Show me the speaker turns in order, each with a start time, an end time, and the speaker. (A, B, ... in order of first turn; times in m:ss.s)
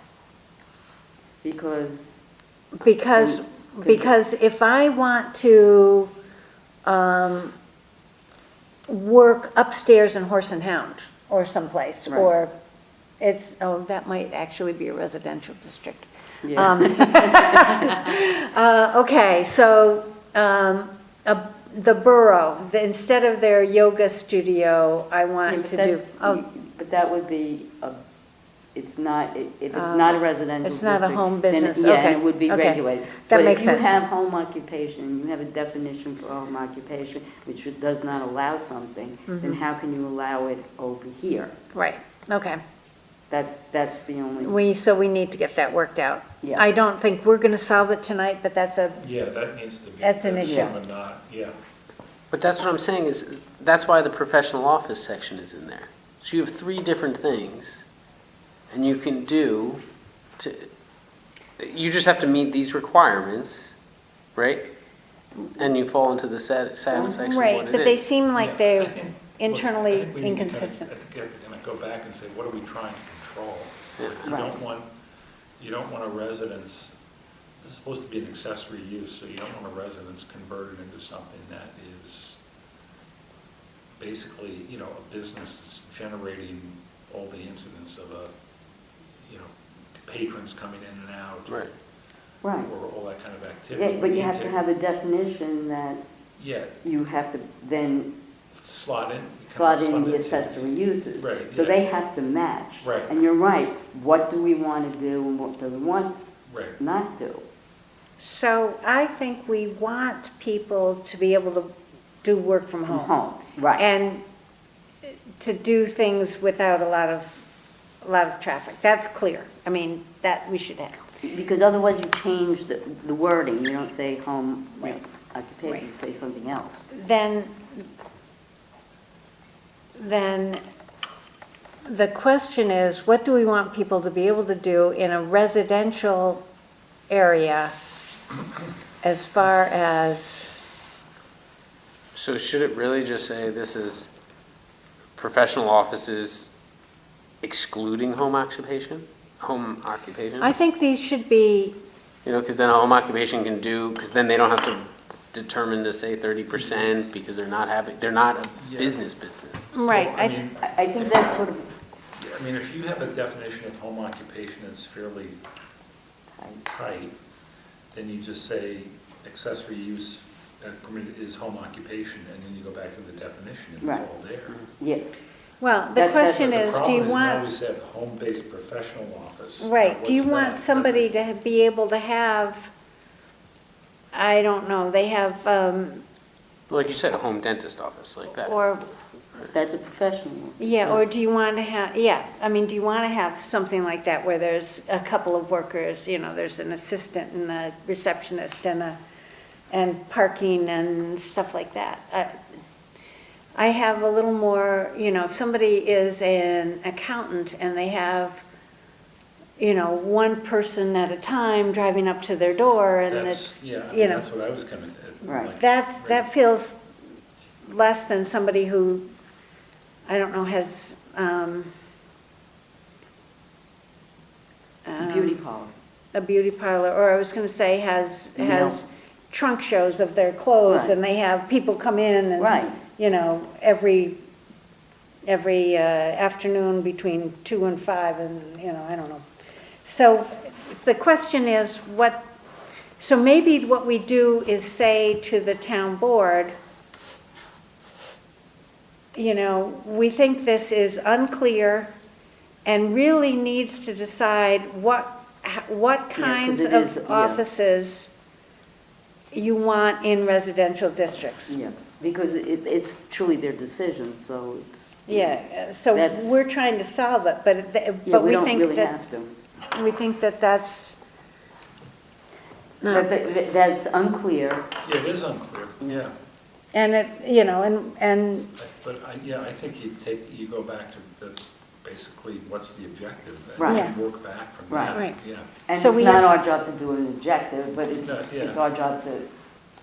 0:01.4-0:02.2 A
0:02.8-0:06.1 B
0:03.2-0:04.1 A
0:06.8-0:07.6 B
0:08.9-0:12.5 B
0:13.2-0:26.4 B
0:16.4-0:17.9 A
0:25.5-0:28.0 A
0:28.8-0:41.6 A
0:29.7-0:34.0 B
0:39.3-0:39.6 B
0:41.7-0:42.6 B
0:43.3-0:44.6 A
0:44.4-0:49.0 B
0:49.0-0:51.5 C
0:50.0-0:50.7 B
0:50.4-0:50.8 A
0:52.3-0:57.9 D
0:58.7-0:59.8 D
1:00.4-1:00.7 D
1:01.6-1:03.8 D
1:04.4-1:04.7 D
1:05.6-1:08.0 D
1:06.9-1:10.9 B
1:08.4-1:14.9 C
1:14.0-1:14.3 D
1:14.2-1:14.6 A
1:15.6-1:16.9 C
1:17.6-1:22.4 C
1:24.0-1:28.3 C
1:29.2-1:31.7 C
1:32.4-1:32.7 A
1:32.6-1:34.6 C
1:33.7-1:36.0 A
1:36.4-1:36.8 C
1:36.8-1:38.2 A
1:38.6-1:40.6 C
1:39.5-1:46.2 A
1:41.2-1:41.8 C
1:42.8-1:43.1 C
1:46.5-1:46.8 C
1:46.8-1:47.4 A
1:48.2-1:53.2 B
1:52.9-1:53.9 A
1:53.8-1:54.2 B
1:55.1-1:57.4 B
1:58.0-2:01.1 B
2:01.2-2:06.9 A
2:06.9-2:07.8 B
2:10.0-2:10.6 B
2:11.8-2:16.4 B
2:17.1-2:17.8 B
2:19.0-2:20.5 B
2:22.1-2:24.1 D
2:25.2-2:26.5 D
2:27.4-2:30.5 D
2:30.4-2:31.8 B
2:32.2-2:39.7 D
2:36.6-2:36.8 C
2:38.6-2:39.0 C
2:39.7-2:40.4 B
2:39.9-2:41.5 C
2:40.6-2:41.7 A
2:42.2-2:45.4 C
2:46.4-2:46.6 A
2:46.7-2:47.1 C
2:47.9-2:54.6 C
2:53.8-2:54.1 A
2:54.6-2:55.1 A
2:55.6-2:57.5 B
2:55.9-2:56.7 A
2:56.3-3:01.1 C
2:59.6-3:02.7 B
3:04.1-3:06.0 B
3:06.7-3:08.6 D
3:08.3-3:08.9 B
3:09.5-3:11.0 A
3:10.6-3:19.0 B
3:19.7-3:22.4 B
3:23.6-3:28.4 B
3:29.6-3:34.2 B
3:33.1-3:36.3 C
3:35.2-3:35.5 A
3:35.5-3:36.8 B
3:37.6-3:39.1 B
3:40.1-3:41.7 B
3:44.9-3:45.4 B
3:45.0-3:45.7 A
3:46.1-3:54.2 B
3:48.4-3:48.8 A
3:50.7-3:51.0 A
3:52.4-3:52.8 A
3:55.3-3:59.3 B
3:59.8-4:02.2 B
4:03.0-4:06.6 B
4:09.2-4:11.9 B
4:12.6-4:18.1 B
4:16.2-4:17.4 A
4:19.3-4:21.6 B
4:21.5-4:25.4 A
4:25.1-4:28.9 B
4:25.9-4:26.4 A
4:28.1-4:29.4 A
4:29.7-4:31.0 B
4:32.8-4:33.1 B
4:32.9-4:34.7 A
4:34.8-4:36.1 C
4:36.7-4:38.5 B
4:38.6-4:45.6 C
4:43.6-4:44.0 A
4:43.6-4:44.0 B
4:44.7-4:45.0 A
4:44.9-4:45.2 B
4:45.6-4:49.3 A
4:45.7-4:46.3 B
4:48.0-4:48.6 C